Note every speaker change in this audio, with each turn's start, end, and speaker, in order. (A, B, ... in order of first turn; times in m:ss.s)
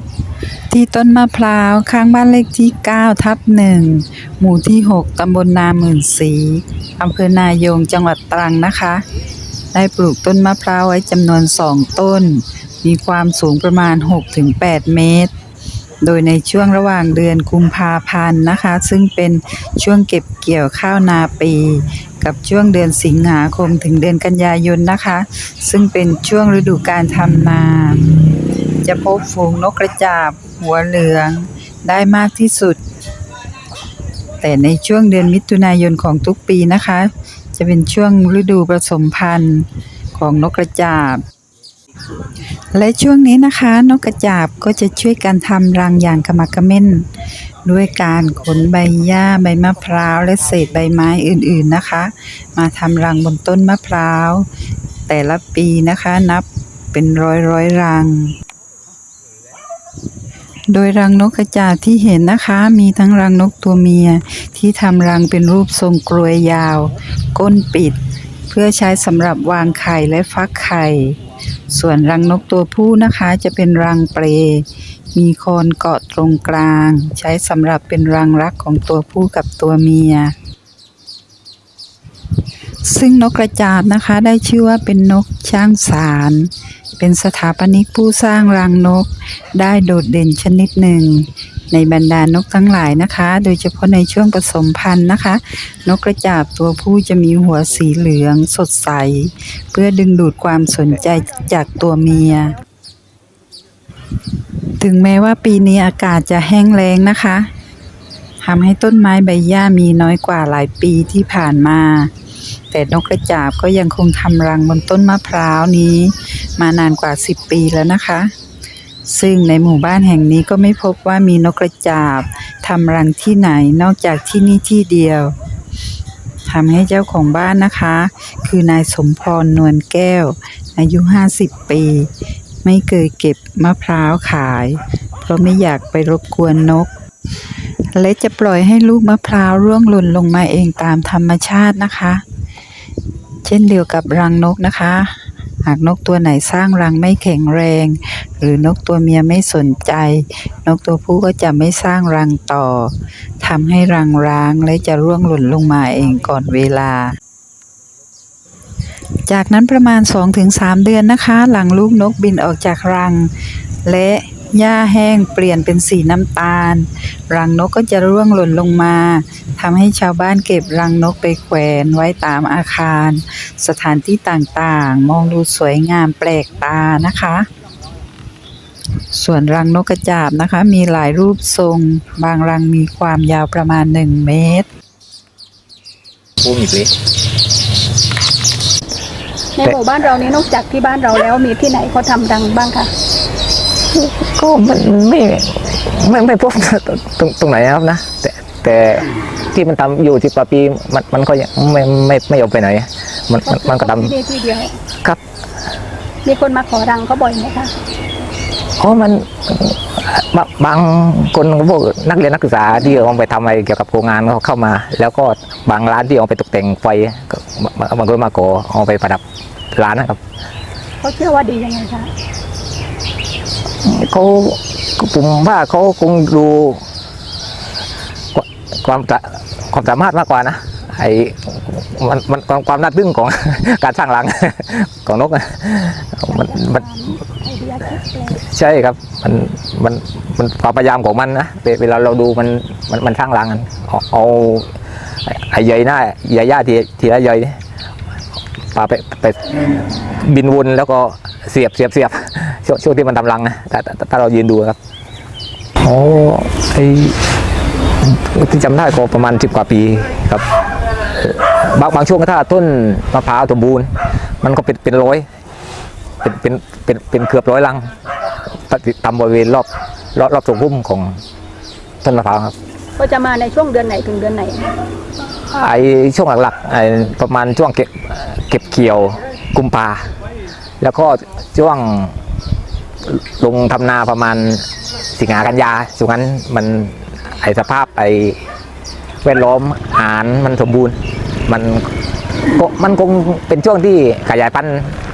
0:00.7-0:09.0 A
0:09.7-0:15.3 A
0:16.0-0:28.0 A
0:28.8-0:32.8 A
0:34.4-0:41.2 A
0:42.7-0:47.0 A
0:47.6-0:54.4 A
0:55.1-0:58.3 A
1:00.7-1:08.0 A
1:08.5-1:11.2 A
1:11.7-1:20.3 A
1:22.8-1:42.6 A
1:44.8-1:47.5 A
1:48.4-1:52.1 A
1:52.7-1:58.3 A
1:59.1-2:05.3 A
2:06.5-2:12.1 A
2:12.6-2:16.9 A
2:18.0-2:22.2 A
2:23.4-2:37.1 A
2:39.3-2:43.3 A
2:43.8-2:57.5 A
2:59.1-3:04.7 A
3:06.4-3:06.9 B
3:09.6-3:12.9 C
3:13.9-3:24.1 B
3:23.4-3:24.7 C
3:26.2-3:27.8 C
3:28.8-3:39.2 B
3:39.7-3:40.2 B
3:41.0-3:42.1 C
3:43.8-3:46.8 B
3:48.3-3:56.8 B
3:56.3-3:58.4 C
3:58.3-4:07.6 B
4:08.7-4:14.8 B
4:15.8-4:17.2 B
4:18.0-4:20.4 B
4:21.1-4:23.9 B
4:24.4-4:25.2 B
4:26.2-4:27.9 B
4:28.7-4:31.2 B
4:32.0-4:32.5 B
4:33.0-4:34.7 C
4:35.5-4:40.1 B
4:40.8-4:42.2 B
4:43.0-4:48.4 B
4:49.2-4:51.0 B
4:51.5-4:51.9 B
4:52.5-4:55.0 B